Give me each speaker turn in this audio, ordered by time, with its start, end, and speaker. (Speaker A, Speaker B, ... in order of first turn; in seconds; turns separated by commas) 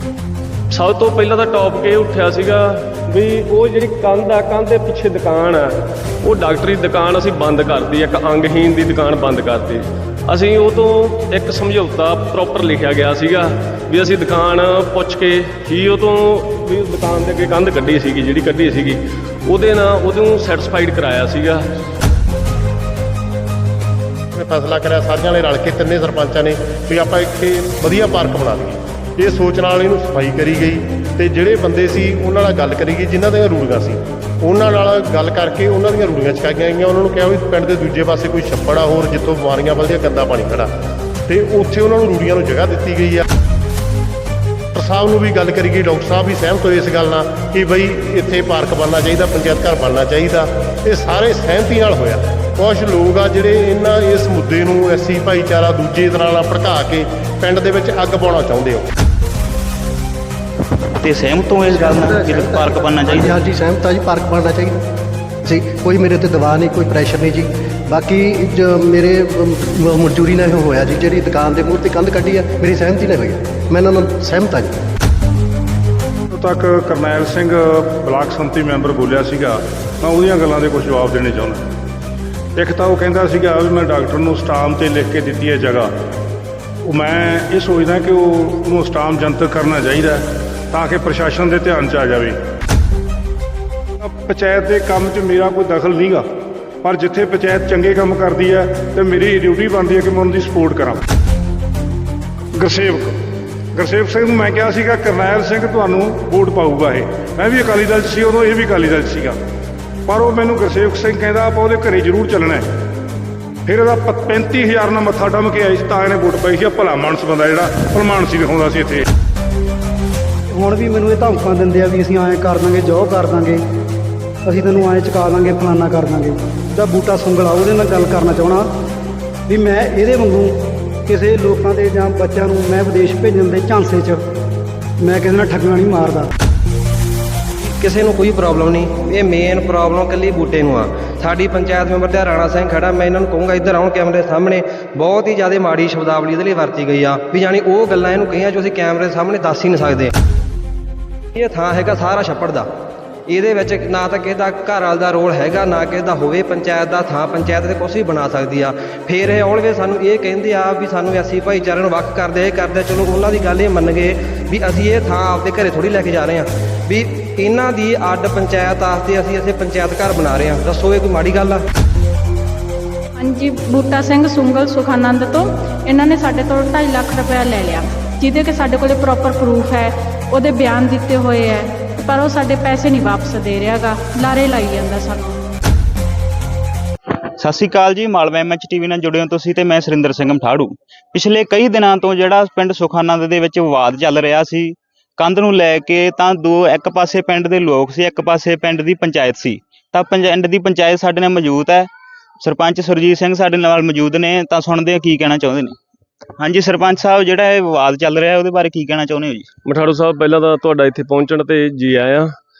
Speaker A: 0.7-5.7, Speaker A: 6.2-21.6, Speaker B: 24.3-40.7, Speaker B: 41.3-43.2, Speaker B: 44.7-58.9, Speaker C: 61.0-63.4, Speaker D: 61.6-64.8, Speaker D: 65.5-74.7, Speaker E: 76.3-81.7, Speaker E: 82.5-85.9, Speaker E: 86.8-92.4, Speaker E: 94.0-96.2, Speaker E: 96.8-101.0, Speaker E: 102.5-103.2, Speaker E: 103.7-109.4, Speaker E: 110.1-112.7, Speaker E: 113.7-119.0, Speaker F: 120.5-123.6, Speaker F: 124.4-128.7, Speaker F: 129.5-134.2, Speaker F: 135.0-136.3, Speaker G: 137.6-150.1, Speaker G: 151.3-152.7, Speaker G: 153.3-171.6, Speaker H: 173.2-185.5, Speaker C: 187.4-201.9, Speaker C: 202.4-205.8, Speaker C: 206.4-209.5, Speaker A: 209.7-212.3